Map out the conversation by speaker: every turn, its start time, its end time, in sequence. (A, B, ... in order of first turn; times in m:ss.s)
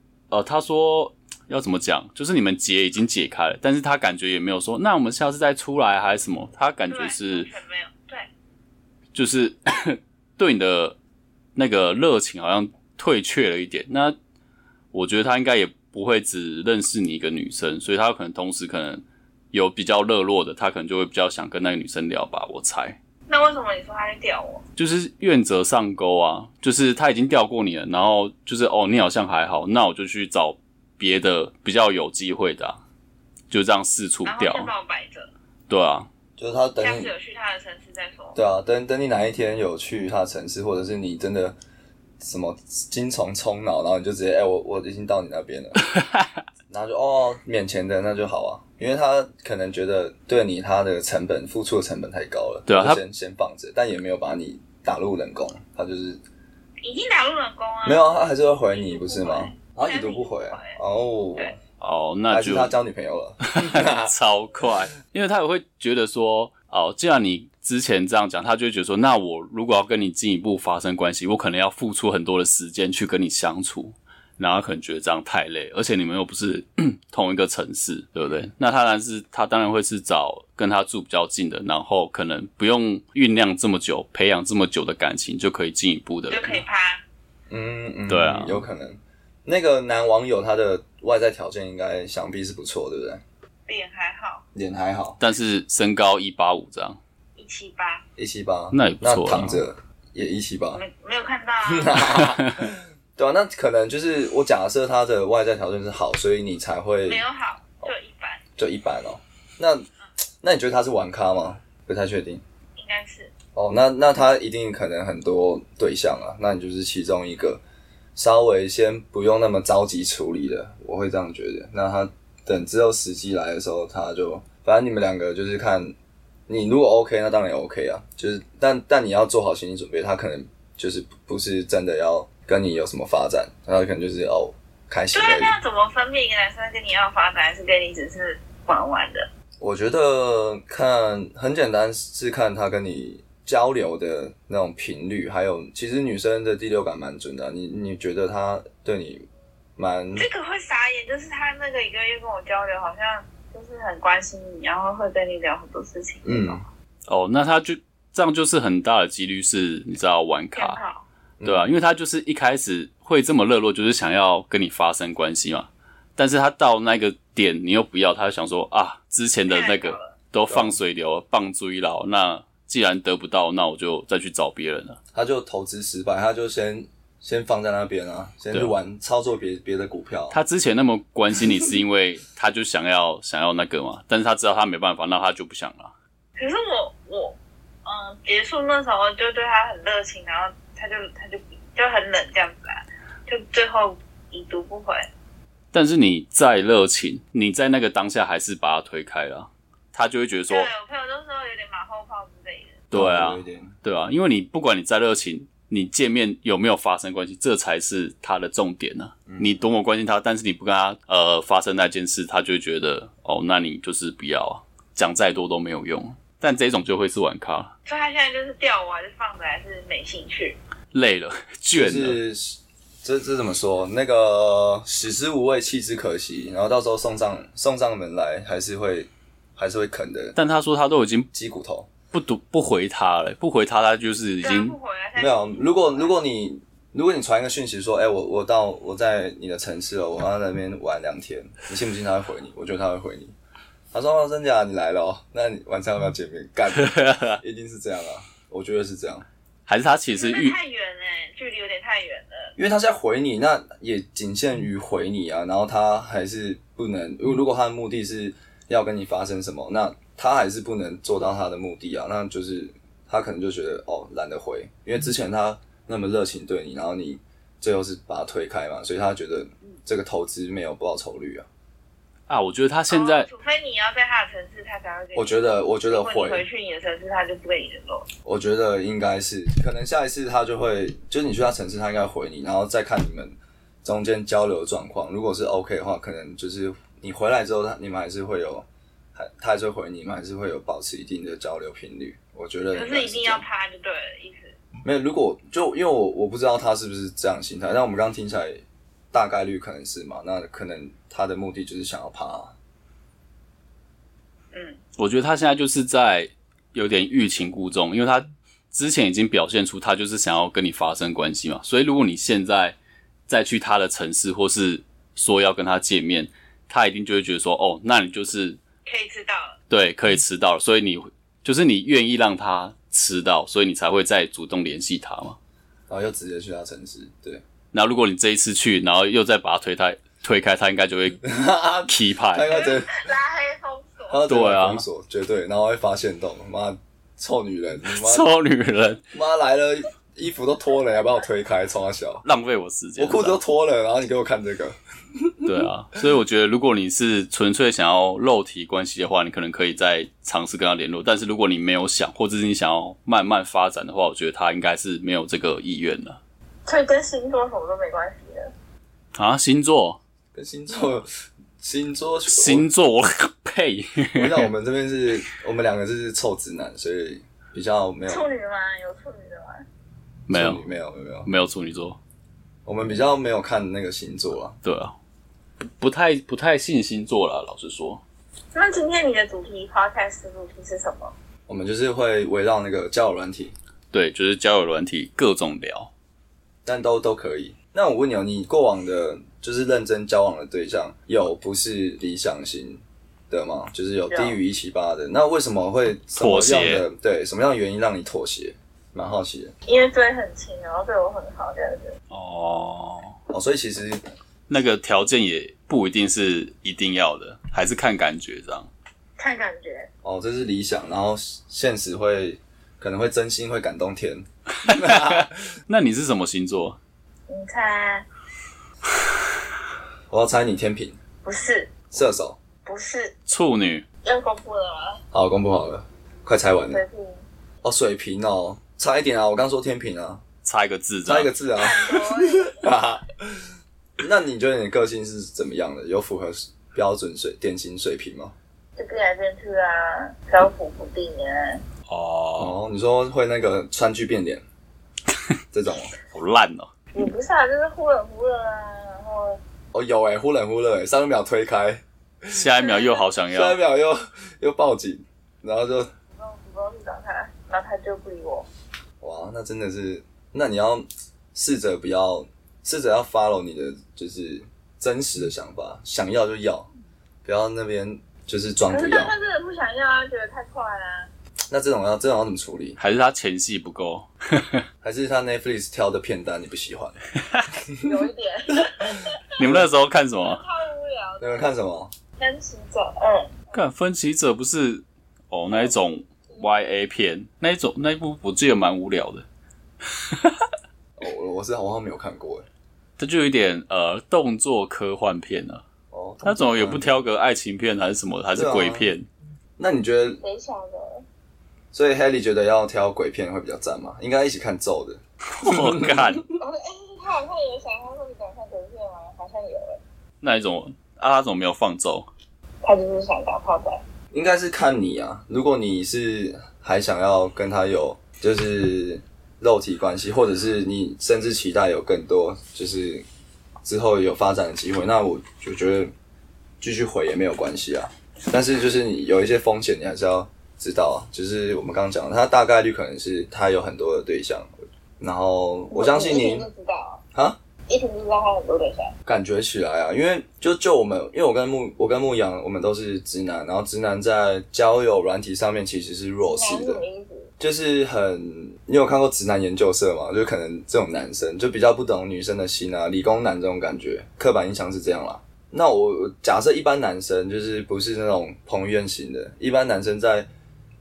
0:00.3-0:07.5 A
0:06.9-0:08.3 B
0:09.1-0:11.0 A
0:11.6-0:14.2 A
0:14.9-0:23.0 A
0:23.3-0:24.6 B
0:24.8-0:32.8 A
0:33.5-0:34.7 A
0:34.2-0:35.3 B
0:35.7-0:36.1 A
0:36.4-0:37.1 C
0:36.8-0:38.4 B
0:38.4-0:41.6 C
0:42.2-0:45.8 C
0:45.8-0:46.3 A
0:46.7-0:56.2 C
0:52.7-0:53.0 A
0:56.8-1:00.8 B
0:57.8-1:01.6 C
1:01.8-1:02.7 A
1:02.3-1:04.1 C
1:03.5-1:26.6 A
1:26.3-1:27.0 B
1:27.5-1:33.2 C
1:28.1-1:28.6 A
1:33.7-1:34.4 B
1:34.5-1:35.2 C
1:35.2-1:37.0 A
1:37.4-1:38.0 B
1:38.2-1:40.8 C
1:38.7-1:39.6 A
1:40.7-1:42.2 B
1:41.6-1:47.2 C
1:42.2-1:42.7 A
1:47.0-1:48.4 B
1:48.6-1:49.9 C
1:50.4-1:52.4 C
1:52.8-1:53.3 B
1:53.6-1:57.6 C
1:58.2-2:05.9 C
2:06.5-2:15.6 C
2:15.1-2:19.3 B
2:19.6-2:30.3 C
2:30.2-2:36.6 B
2:36.2-2:36.6 C
2:37.1-2:40.8 A
2:40.6-2:41.0 B
2:41.4-2:41.7 C
2:41.4-2:55.0 A
2:49.5-2:50.2 B
2:50.5-2:50.8 C
2:55.1-3:00.4 C
3:00.3-3:05.9 A
3:06.4-3:15.1 B
3:15.7-3:20.7 A
3:20.5-3:22.8 B
3:22.9-3:37.7 A
3:22.9-3:23.7 C
3:29.3-3:29.6 C
3:37.9-3:40.6 B
3:40.9-3:42.2 A
3:41.7-3:50.4 C
3:50.4-3:51.3 A
3:51.3-3:51.9 C
3:52.1-3:54.8 A
3:54.4-3:56.1 B
3:55.2-4:03.3 C
4:03.9-4:09.3 C
4:06.8-4:07.4 A
4:09.7-4:10.6 A
4:10.1-4:12.6 B
4:12.6-4:31.5 C
4:32.3-4:33.3 A
4:32.9-4:38.1 B
4:35.2-4:36.4 C
4:38.2-4:53.4 C
4:52.7-4:54.6 B
4:54.8-5:02.6 C
5:04.5-5:04.8 B
5:05.0-5:12.8 A
5:13.3-5:18.6 A
5:18.9-5:19.6 B
5:19.7-5:25.4 A
5:25.9-5:27.4 C
5:27.7-5:31.3 A
5:31.2-5:33.0 C
5:31.9-5:32.6 A
5:32.5-5:34.2 B
5:34.1-5:38.3 C
5:34.3-5:34.8 A
5:37.9-5:39.0 A
5:39.1-5:42.2 C
5:42.2-5:43.4 A
5:43.0-5:45.7 C
5:45.4-5:56.2 A
5:56.7-5:58.5 B
5:59.2-6:00.0 A
6:00.3-6:01.1 C
6:01.6-6:02.7 C
6:02.3-6:04.5 A
6:04.2-6:08.3 C
6:08.1-6:09.6 B
6:10.3-6:10.6 A
6:10.3-6:11.3 C
6:11.3-6:12.0 A
6:12.7-6:14.6 C
6:14.6-6:15.0 A
6:15.6-6:18.0 A
6:18.5-6:21.1 B
6:21.5-6:23.6 C
6:23.9-6:25.9 A
6:26.6-6:39.5 C
6:34.1-6:34.4 B
6:36.2-6:36.9 A
6:39.7-6:42.0 B
6:42.1-6:43.2 A
6:43.3-6:44.0 C
6:44.5-6:48.7 A
6:49.2-6:49.9 B
6:50.0-6:55.3 C
6:54.6-6:56.8 A
6:57.3-6:58.1 B
7:00.1-7:01.0 C
7:01.2-7:01.8 B
7:01.9-7:02.4 C
7:02.6-7:03.2 B
7:03.3-7:03.8 A
7:04.0-7:05.0 B
7:05.1-7:06.8 C
7:06.7-7:07.2 B
7:07.6-7:10.2 C
7:10.4-7:11.3 A
7:11.0-7:13.5 C
7:11.6-7:12.7 B
7:14.0-7:18.3 C
7:18.8-7:21.6 B
7:21.9-7:22.6 A
7:22.4-7:24.4 C
7:25.5-7:25.9 C
7:26.1-7:26.7 A
7:26.9-7:29.4 B
7:29.7-7:32.5 C
7:32.3-7:33.6 A
7:33.3-7:35.9 C
7:36.1-7:38.5 B
7:39.0-7:46.7 C
7:47.2-7:49.1 C
7:48.7-7:51.1 B
7:51.5-7:52.8 C
7:52.8-7:54.6 A
7:54.8-7:57.0 C
7:57.8-7:59.4 B
7:58.5-7:59.7 C
7:59.4-8:00.4 A
8:00.2-8:01.6 B
8:01.2-8:01.9 C
8:02.2-8:03.4 B
8:03.5-8:09.2 A
8:10.1-8:10.4 A
8:11.0-8:12.5 C
8:13.0-8:15.6 A
8:15.9-8:16.9 C
8:16.2-8:19.1 A
8:18.4-8:18.9 C
8:19.6-8:20.2 C
8:20.2-8:21.0 B
8:21.7-8:26.2 C
8:25.3-8:26.2 A
8:26.4-8:29.8 B
8:30.2-8:32.1 A
8:32.6-8:33.8 B
8:34.1-8:43.0 C
8:43.6-8:45.9 C
8:46.6-8:56.5 C
8:55.7-8:57.0 B
8:57.7-8:59.0 B
8:59.1-9:06.8 C
9:06.2-9:07.3 B
9:07.4-9:20.3 C